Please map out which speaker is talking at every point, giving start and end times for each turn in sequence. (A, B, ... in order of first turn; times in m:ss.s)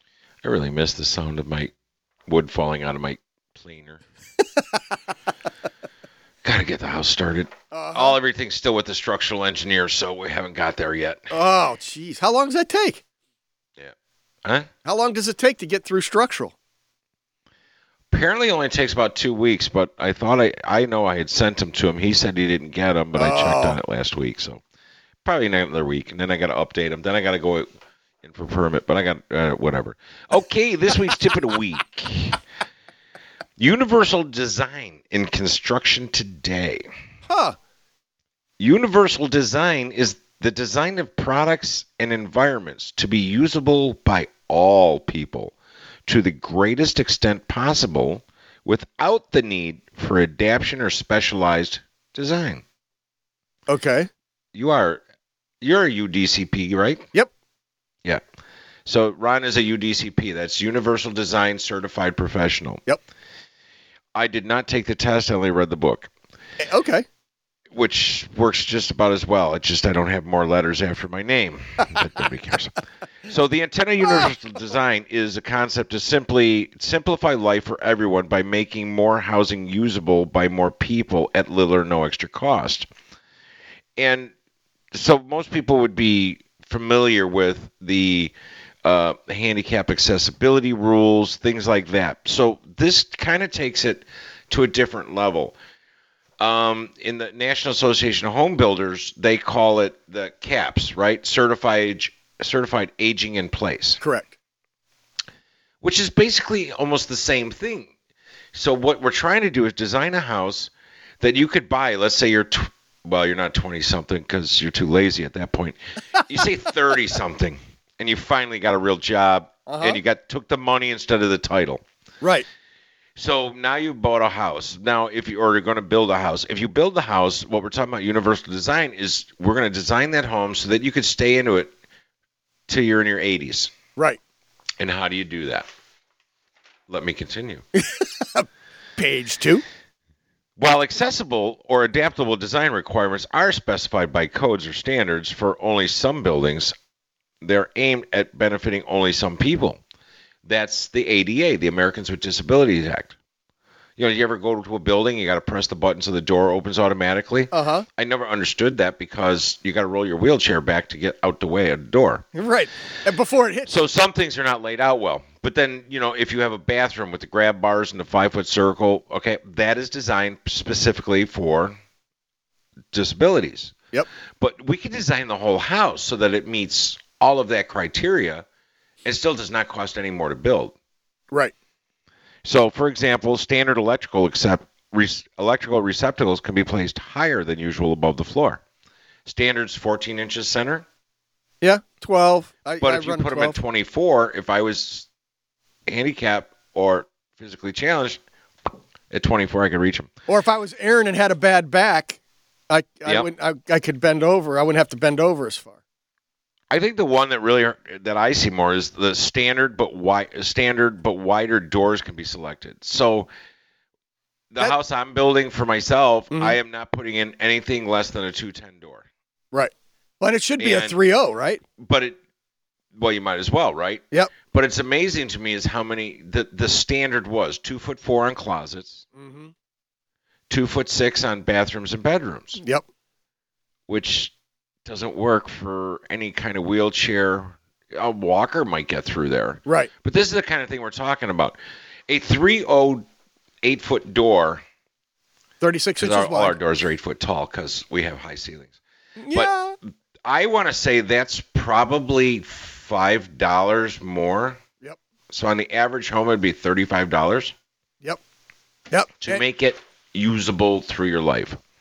0:00.4-0:01.7 A
0:02.3-0:04.0 A
0:06.4-0:11.3 A
0:07.7-0:08.2 B
0:11.3-0:13.0 B
0:13.8-0:14.7 A
0:14.8-0:16.5 B
0:18.1-0:24.6 A
0:23.1-0:23.8 B
0:25.2-0:27.7 A
0:28.2-0:32.4 A
0:33.6-0:36.9 A
0:37.3-0:37.6 B
0:38.6-0:45.5 A
0:46.1-0:52.6 A
0:53.7-0:54.1 B
0:54.5-0:55.0 A
0:55.6-0:57.1 A
0:58.9-1:02.8 A
1:04.1-1:06.1 A
1:06.6-1:07.1 B
1:07.7-1:22.9 A
1:24.0-1:24.3 A
1:24.9-1:35.6 A
1:36.4-1:44.0 A
1:44.0-1:44.3 B
1:45.8-1:47.9 A
1:48.5-2:01.8 A
1:59.7-2:00.0 B
2:02.2-2:02.5 B
2:03.2-2:11.7 A
2:12.7-2:13.7 A
2:14.8-2:15.7 A
2:16.9-2:17.6 A
2:17.8-2:19.6 B
2:20.6-2:26.7 A
2:27.4-2:29.8 A
2:30.4-2:33.2 A
2:34.0-2:42.3 A
2:37.5-2:37.9 B
2:42.4-2:43.7 B
2:43.7-2:51.8 A
2:52.9-2:53.8 A
2:54.4-2:58.4 A
2:59.0-3:00.8 A
3:02.4-3:08.6 A
3:09.3-3:10.9 A
3:11.6-3:13.6 B
3:12.8-3:15.1 A
3:15.9-3:18.2 A
3:19.1-3:20.1 A
3:20.3-3:22.2 B
3:22.7-3:25.8 B
3:26.7-3:33.3 A
3:34.5-3:39.1 A
3:36.3-3:36.6 B
3:39.5-3:41.6 B
3:40.6-3:41.0 A
3:41.8-3:42.2 A
3:43.0-3:49.1 A
3:49.1-3:49.5 B
3:50.5-3:52.6 A
3:52.6-3:52.8 B
3:53.9-3:54.3 A
3:54.8-4:03.1 A
4:03.6-4:04.6 A
4:05.6-4:06.6 B
4:06.0-4:08.8 A
4:09.2-4:09.8 B
4:10.2-4:14.6 A
4:15.3-4:17.5 A
4:18.9-4:19.4 B
4:19.2-4:21.6 A